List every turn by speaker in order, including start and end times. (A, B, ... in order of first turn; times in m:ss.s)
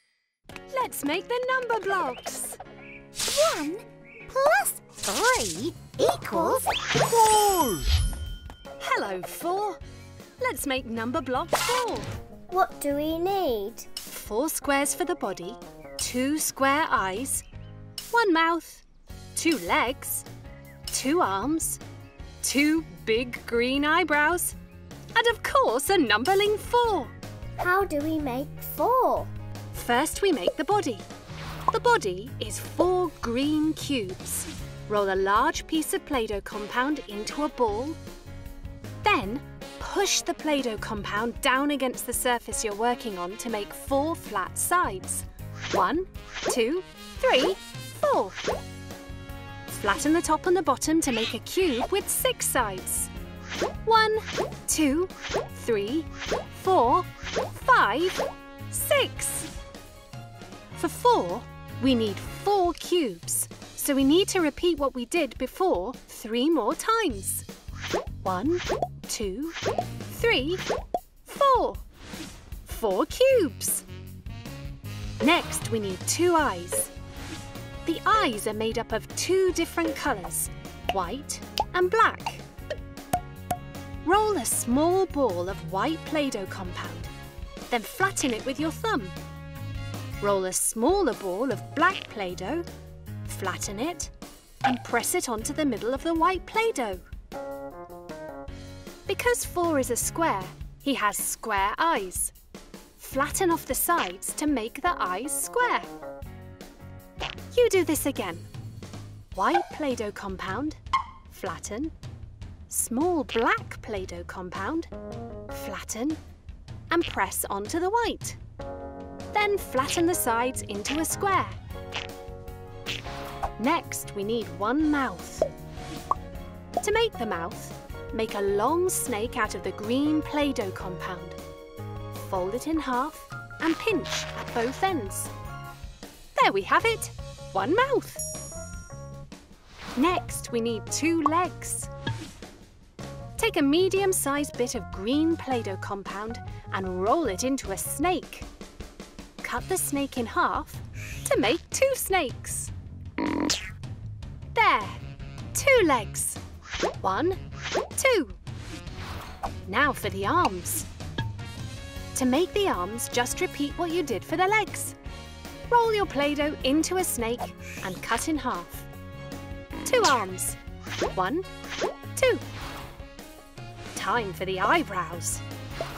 0:00.7-0:02.6 A
0:03.3-0:06.7 B
0:08.8-0:09.8 A
0:10.4-0:12.1 A
0:12.5-0:13.9 B
0:14.1-0:17.4 A
0:18.1-0:18.8 A
0:19.4-0:20.3 A
0:20.9-0:21.8 A
0:22.4-0:24.6 A
0:25.2-0:27.1 A
0:27.6-0:29.3 B
0:29.7-0:31.1 A
0:31.7-0:38.0 A
0:39.0-0:48.4 A
0:49.7-0:53.1 A
0:53.8-0:59.5 A
1:00.8-1:07.5 A
1:08.2-1:09.6 A
1:10.1-1:10.6 A
1:11.2-1:11.8 A
1:12.6-1:13.9 A
1:15.2-1:16.9 A
1:17.8-1:22.4 A
1:24.0-1:27.1 A
1:27.7-1:29.2 A
1:30.2-1:32.7 A
1:33.3-1:34.1 A
1:34.6-1:37.1 A
1:39.1-1:42.3 A
1:43.0-1:45.9 A
1:47.5-1:48.5 A
1:49.3-1:50.8 A
1:51.3-1:51.9 A
1:52.7-1:54.9 A
1:55.5-1:56.2 A
1:56.9-1:58.4 A
1:59.3-2:01.6 A
2:03.6-2:05.5 A
2:06.8-2:11.4 A
2:12.1-2:15.3 A
2:16.4-2:18.2 A
2:20.0-2:21.9 A
2:23.4-2:28.5 A
2:29.4-2:32.7 A
2:34.6-2:35.0 A
2:35.5-2:36.4 A
2:37.0-2:37.4 A
2:38.0-2:38.4 A
2:39.7-2:40.9 A
2:42.1-2:45.0 A
2:45.7-2:48.9 A
2:49.8-2:50.6 A
2:51.1-2:51.5 A
2:52.2-2:52.4 A
2:53.9-2:55.4 A